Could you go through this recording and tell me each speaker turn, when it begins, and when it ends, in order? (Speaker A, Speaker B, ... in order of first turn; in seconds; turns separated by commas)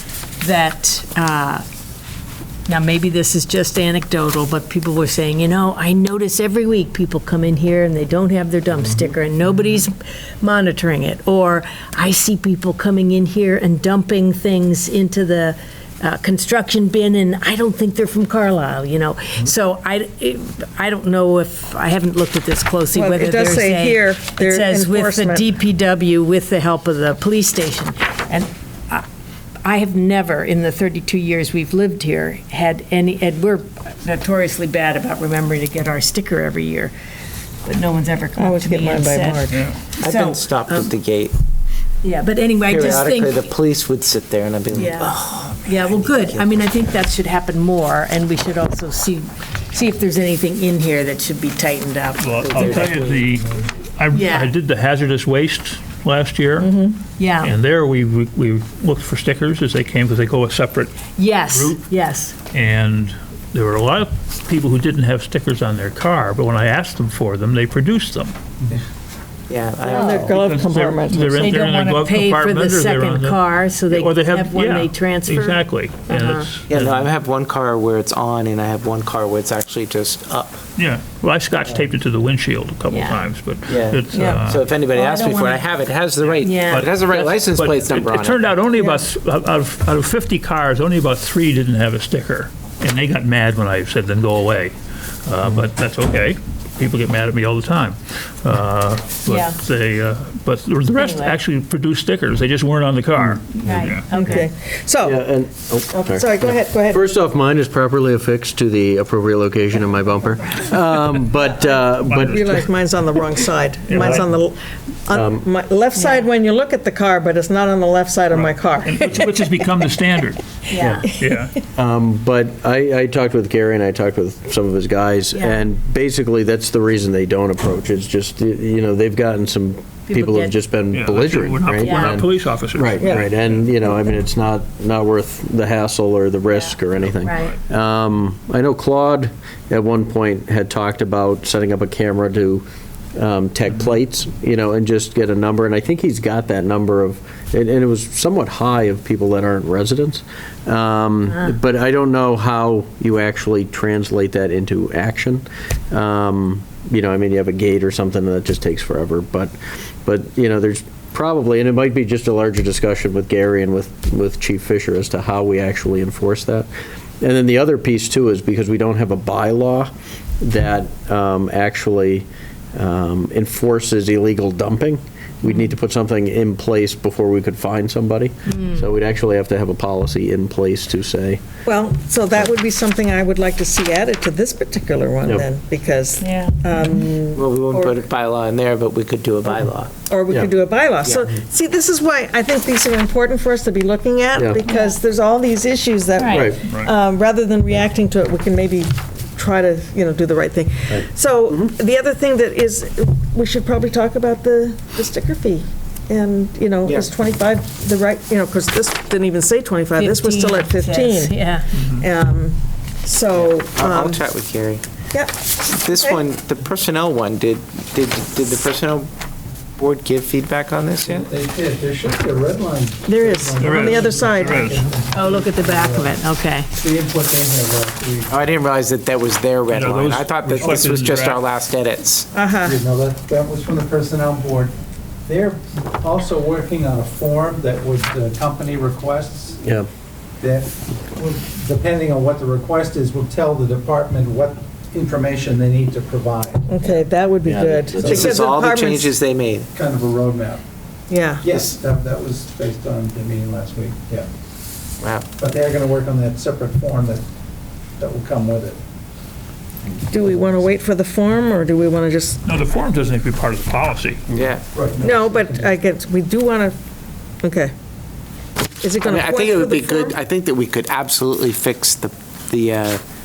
Speaker A: 0.4-1.6, Speaker A: 2.7-29.0, Speaker B: 22.9-25.4, Speaker A: 29.6-36.9, Speaker A: 37.6-40.9, Speaker B: 38.4-39.5, Speaker C: 39.5-39.8, Speaker D: 40.0-41.3, Speaker A: 42.0-43.5, Speaker D: 42.7-46.6, Speaker A: 44.7-52.9, Speaker C: 52.2-56.7, Speaker D: 52.4-53.4, Speaker A: 54.1-54.5, Speaker B: 56.6-57.0, Speaker A: 57.2-57.5, Speaker C: 57.4-61.8, Speaker A: 61.1-62.3, Speaker C: 62.5-68.3, Speaker D: 69.5-70.4, Speaker B: 69.8-71.6, Speaker A: 69.9-70.3, Speaker C: 70.3-77.0, Speaker A: 71.3-75.6, Speaker B: 76.1-76.4, Speaker D: 76.7-80.6, Speaker C: 80.8-84.6, Speaker A: 82.9-83.2, Speaker D: 83.7-88.5, Speaker B: 84.1-84.4, Speaker A: 84.9-85.7, Speaker A: 86.4-86.9, Speaker C: 86.7-94.7, Speaker C: 95.2-104.0, Speaker A: 99.2-99.6, Speaker A: 101.0-101.4, Speaker A: 103.6-104.5, Speaker B: 104.1-105.2, Speaker E: 105.0-112.6, Speaker B: 105.9-107.0, Speaker C: 111.7-112.7, Speaker B: 112.3-119.9, Speaker C: 113.9-114.3, Speaker E: 115.1-115.5, Speaker A: 115.9-116.3, Speaker C: 118.3-120.4, Speaker A: 120.7-121.1, Speaker C: 121.2-121.5, Speaker E: 121.7-166.7, Speaker A: 125.3-125.6, Speaker A: 130.1-130.5, Speaker C: 130.9-133.6, Speaker A: 131.8-132.2, Speaker B: 133.0-133.3, Speaker A: 136.5-137.5, Speaker E: 167.2-181.4, Speaker A: 178.5-178.8, Speaker B: 181.6-188.0, Speaker A: 186.2-186.9, Speaker D: 187.3-189.9, Speaker B: 190.1-214.2, Speaker D: 191.0-191.3, Speaker E: 194.3-194.6, Speaker A: 194.7-195.0, Speaker A: 196.2-196.5, Speaker E: 196.3-196.6, Speaker C: 196.7-196.9, Speaker E: 200.9-201.7, Speaker D: 206.8-207.1, Speaker A: 209.9-211.7, Speaker C: 211.8-212.0, Speaker D: 213.3-214.8, Speaker B: 215.1-216.2, Speaker D: 215.6-219.1, Speaker D: 219.8-221.3, Speaker F: 221.1-228.3, Speaker B: 223.1-224.7, Speaker C: 223.6-224.8, Speaker A: 225.1-226.7, Speaker D: 228.3-232.3, Speaker C: 229.7-231.4, Speaker B: 232.3-232.8, Speaker F: 232.6-234.7, Speaker F: 235.3-239.7, Speaker F: 240.4-246.8, Speaker B: 246.7-249.1, Speaker E: 247.4-248.3, Speaker D: 248.0-249.7, Speaker F: 248.0-248.4, Speaker F: 249.7-250.6, Speaker B: 251.1-251.5, Speaker F: 251.4-254.3, Speaker D: 255.0-255.3, Speaker F: 255.4-257.2, Speaker F: 258.0-258.8, Speaker B: 260.1-262.4, Speaker C: 262.4-264.5, Speaker D: 264.3-264.6, Speaker F: 264.7-265.8, Speaker B: 265.0-266.8, Speaker B: 267.4-267.7, Speaker B: 268.8-270.2, Speaker D: 269.0-273.0